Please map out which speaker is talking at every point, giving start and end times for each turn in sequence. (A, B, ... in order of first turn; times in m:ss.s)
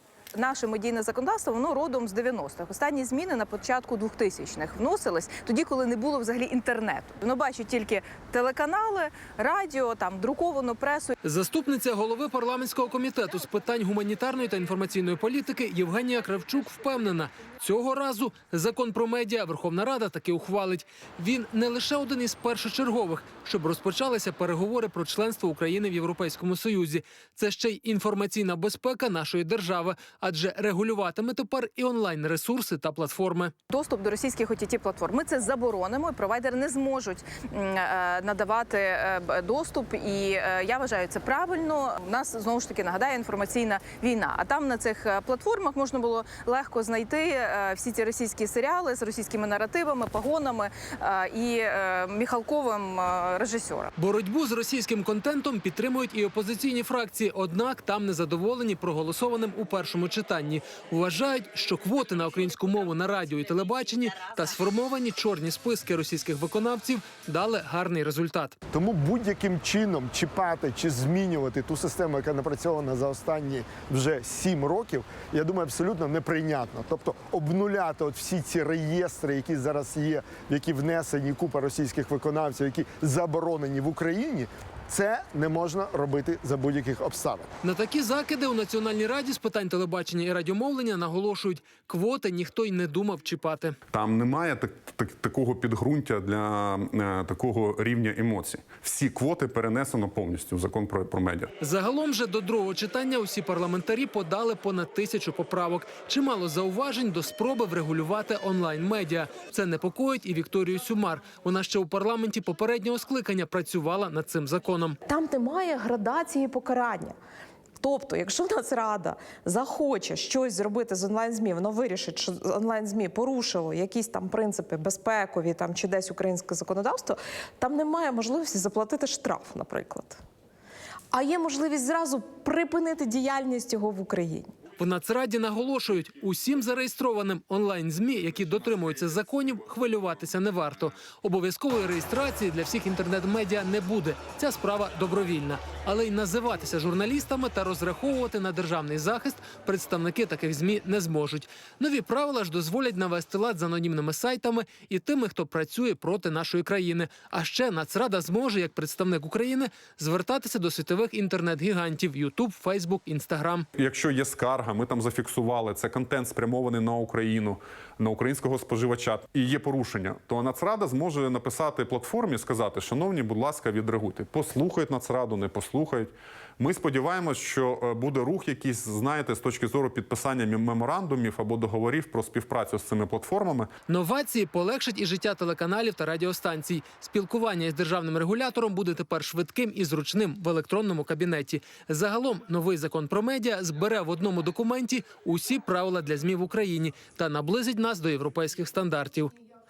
0:00.3-0:11.1 A
0:11.2-0:33.5 B
0:33.7-0:53.9 A
0:54.0-1:08.5 B
1:08.7-1:27.5 C
1:27.6-1:33.8 B
1:33.9-1:41.5 D
1:41.6-1:55.0 B
1:55.1-1:57.2 E
1:57.8-2:10.2 E
2:11.1-2:14.5 E
2:14.8-2:43.6 B
2:43.8-3:03.7 D
3:03.9-3:19.3 B